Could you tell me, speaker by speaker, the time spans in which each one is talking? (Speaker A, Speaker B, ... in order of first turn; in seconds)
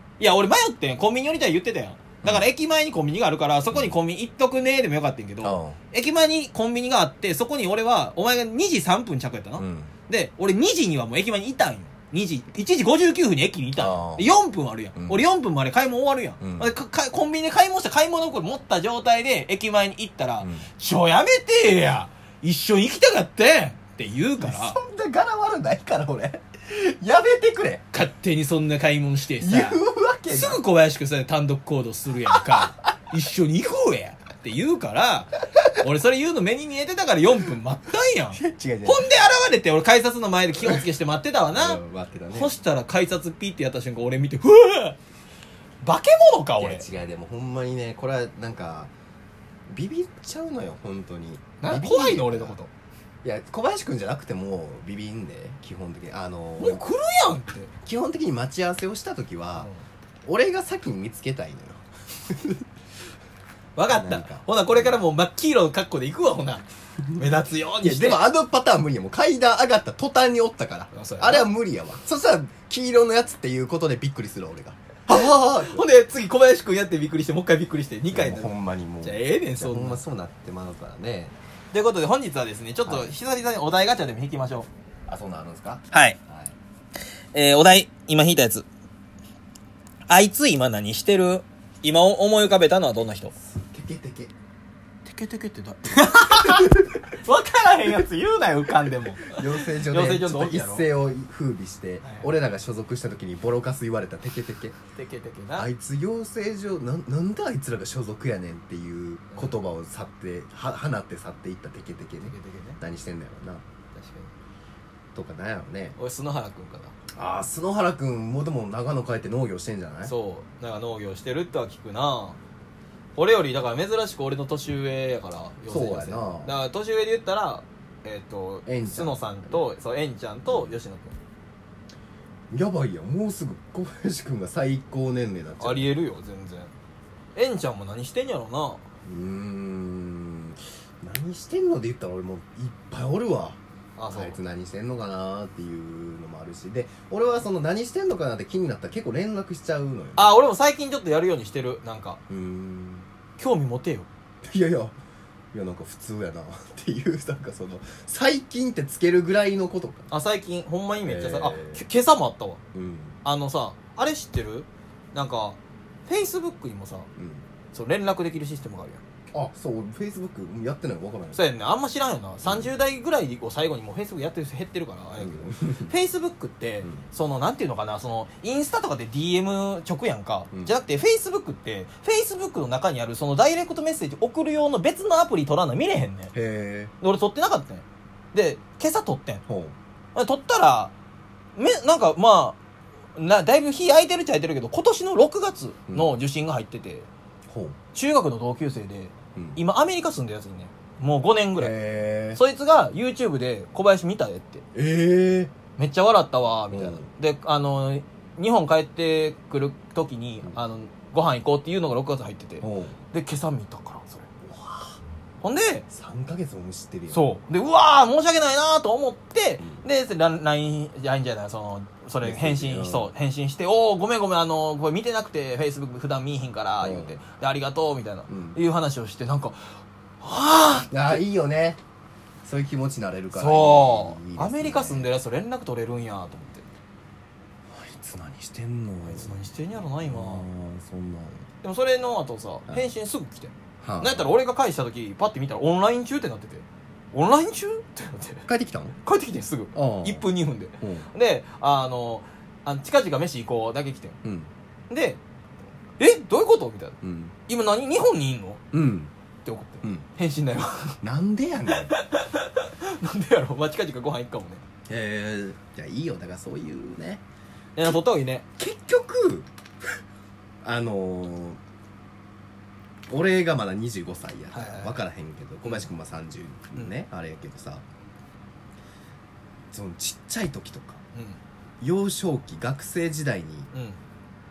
Speaker A: 0.2-24.8, 27.9-41.8, 42.3-45.0, 45.8-46.8, 51.6-52.7, 56.6-57.7, 59.5-59.8, 63.8-68.2, 70.9-71.5, 75.1-78.5, 79.0-80.0, 81.7-84.7, 85.9-86.2, 87.3-88.7, 90.1-93.3, 95.0-100.9, 104.9-105.7, 112.3-112.8, 113.9-114.3, 116.0-116.9, 120.0-122.4, 123.2-131.1, 135.6-136.7, 137.3-138.8, 144.0-144.4, 150.2-152.2, 153.4-154.1, 160.1-162.6, 163.2-167.1, 167.7-169.0, 171.3-186.3, 187.0-189.4, 190.1-190.9, 191.6-192.6, 193.2-197.1, 197.9-201.7, 202.3-204.6, 205.8-214.4, 215.4-215.8, 217.1-231.2, 233.3-236.7, 239.0-240.5, 241.6-248.5, 249.0-254.2, 254.9-255.2, 256.0-256.9, 257.5-258.6, 259.4-261.0, 261.7-264.6, 267.8-268.4, 274.5-275.0, 275.6-275.9, 283.7-284.0
Speaker B: 3.7-4.0, 5.4-5.8, 9.6-9.9, 13.8-14.3, 14.9-15.2, 16.4-16.7, 20.4-20.6, 24.4-27.8, 29.4-30.6, 38.3-39.1, 41.5-42.5, 46.6-48.9, 49.7-52.6, 53.2-56.8, 57.8-59.7, 60.2-62.6, 63.9-65.0, 67.8-75.8, 78.1-81.3, 82.8-83.1, 85.1-86.5, 93.4-94.3, 96.2-96.9, 99.3-104.7, 105.5-113.6, 115.1-116.0, 117.1-120.1, 125.7-126.5, 128.7-129.6, 130.5-130.8, 132.5-135.9, 139.0-143.6, 144.1-150.3, 152.3-153.1, 154.4-154.9, 155.5-160.1, 161.0-161.8, 162.7-163.2, 167.2-167.4, 169.3-171.4, 172.4-172.7, 175.2-175.9, 186.3-186.9, 189.5-189.7, 195.9-196.1, 197.5-197.8, 201.6-202.4, 204.7-205.5, 206.7-207.1, 212.6-212.9, 214.4-214.9, 215.9-217.3, 219.6-219.8, 222.2-223.1, 226.8-227.2, 228.3-228.6, 230.9-231.8, 232.4-235.1, 237.7-239.3, 240.0-241.4, 243.8-244.3, 248.5-248.9, 249.7-250.3, 250.8-251.1, 254.2-254.5, 257.0-257.3, 258.7-259.1, 261.0-261.9, 264.9-267.2, 268.6-269.5, 270.6-271.6, 273.1-277.8, 279.7-281.0, 281.8-283.7